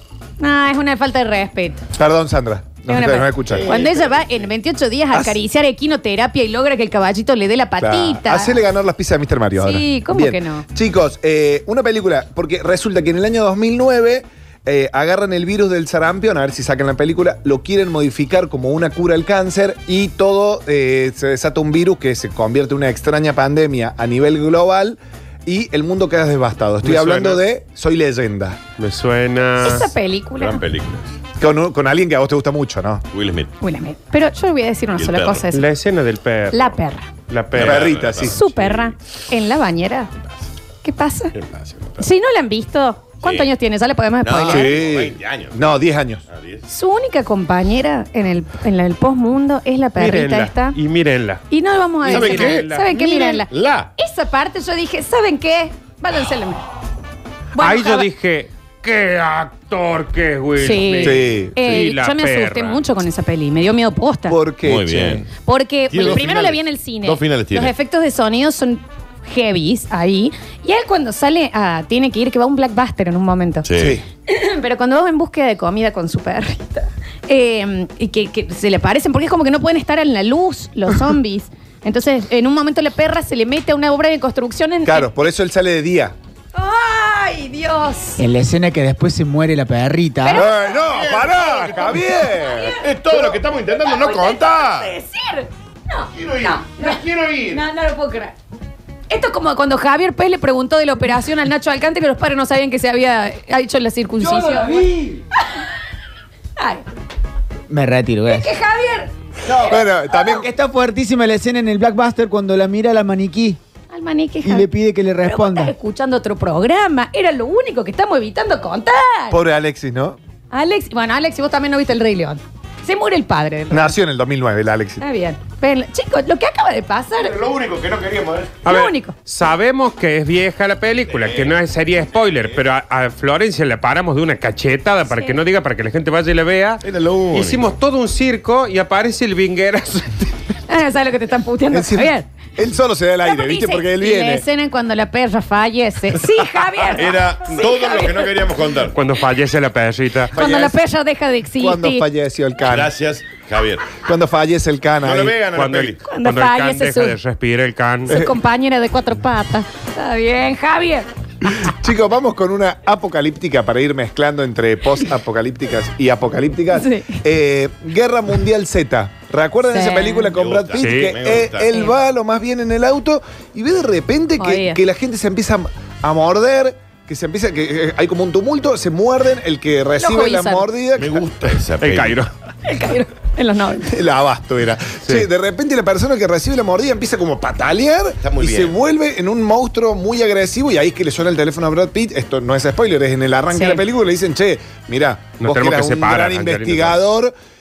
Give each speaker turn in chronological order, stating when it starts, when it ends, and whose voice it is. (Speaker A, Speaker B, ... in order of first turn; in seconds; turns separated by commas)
Speaker A: 0.4-1.8, Speaker B: 1.9-3.7, Speaker A: 2.9-8.6, Speaker C: 3.5-4.5, Speaker B: 5.1-5.4, Speaker B: 7.8-28.6, Speaker A: 9.6-10.7, Speaker D: 26.8-27.4, Speaker D: 28.8-29.9, Speaker A: 29.6-30.6, Speaker C: 30.4-31.2, Speaker B: 31.4-33.0, Speaker C: 33.1-33.5, Speaker A: 33.6-35.6, Speaker C: 35.0-35.5, Speaker D: 35.5-38.0, Speaker A: 36.5-37.1, Speaker B: 37.5-38.4, Speaker C: 37.5-38.9, Speaker A: 38.2-40.1, Speaker A: 40.8-41.3, Speaker C: 41.3-42.1, Speaker A: 42.0-44.8, Speaker C: 43.2-43.5, Speaker C: 44.2-45.8, Speaker B: 44.4-46.2, Speaker C: 46.3-46.6, Speaker A: 46.7-50.8, Speaker D: 50.0-51.4, Speaker A: 51.5-56.6, Speaker D: 52.0-52.9, Speaker C: 52.1-53.9, Speaker A: 57.5-58.1, Speaker D: 57.6-62.8, Speaker A: 60.6-64.4, Speaker B: 61.0-61.6, Speaker B: 64.3-65.3, Speaker C: 64.6-65.3, Speaker A: 65.4-73.7, Speaker C: 65.9-67.7, Speaker C: 73.6-74.0, Speaker B: 73.7-74.0, Speaker A: 74.3-85.1, Speaker B: 84.8-86.1, Speaker A: 86.5-88.2, Speaker E: 88.2-90.5, Speaker A: 90.2-98.3, Speaker B: 90.3-92.8, Speaker C: 90.7-91.9, Speaker C: 92.7-94.9, Speaker C: 96.1-97.6, Speaker A: 99.1-104.8, Speaker A: 106.6-106.8, Speaker E: 107.7-108.5, Speaker A: 108.3-109.1, Speaker B: 109.5-110.5, Speaker E: 110.2-113.6, Speaker A: 113.9-114.7, Speaker E: 114.4-115.7, Speaker A: 115.2-119.4, Speaker B: 119.3-120.2, Speaker A: 120.5-124.0, Speaker B: 123.7-125.0, Speaker A: 125.0-127.4, Speaker C: 127.2-128.6, Speaker A: 128.6-129.1, Speaker D: 128.6-140.3, Speaker C: 131.1-131.6, Speaker C: 132.3-132.6, Speaker A: 135.1-135.4, Speaker C: 136.8-137.7, Speaker A: 140.7-142.3, Speaker B: 141.7-144.4, Speaker A: 143.2-148.3, Speaker C: 146.8-149.0, Speaker D: 148.9-150.3, Speaker B: 150.3-150.8, Speaker A: 150.3-152.1, Speaker B: 151.6-152.9, Speaker C: 152.6-154.0, Speaker B: 154.0-155.4, Speaker C: 155.0-156.0, Speaker D: 155.5-158.2, Speaker A: 156.1-157.2, Speaker A: 158.1-161.1, Speaker B: 158.1-158.3, Speaker B: 161.4-181.5, Speaker A: 166.7-167.2, Speaker A: 169.7-170.3, Speaker C: 170.3-171.7, Speaker D: 170.8-171.2, Speaker A: 174.4-174.8, Speaker A: 180.0-180.7, Speaker C: 180.9-182.2, Speaker D: 181.8-182.3, Speaker A: 182.6-183.9, Speaker B: 183.8-197.3, Speaker C: 188.2-188.7, Speaker A: 193.5-193.8, Speaker D: 195.4-197.0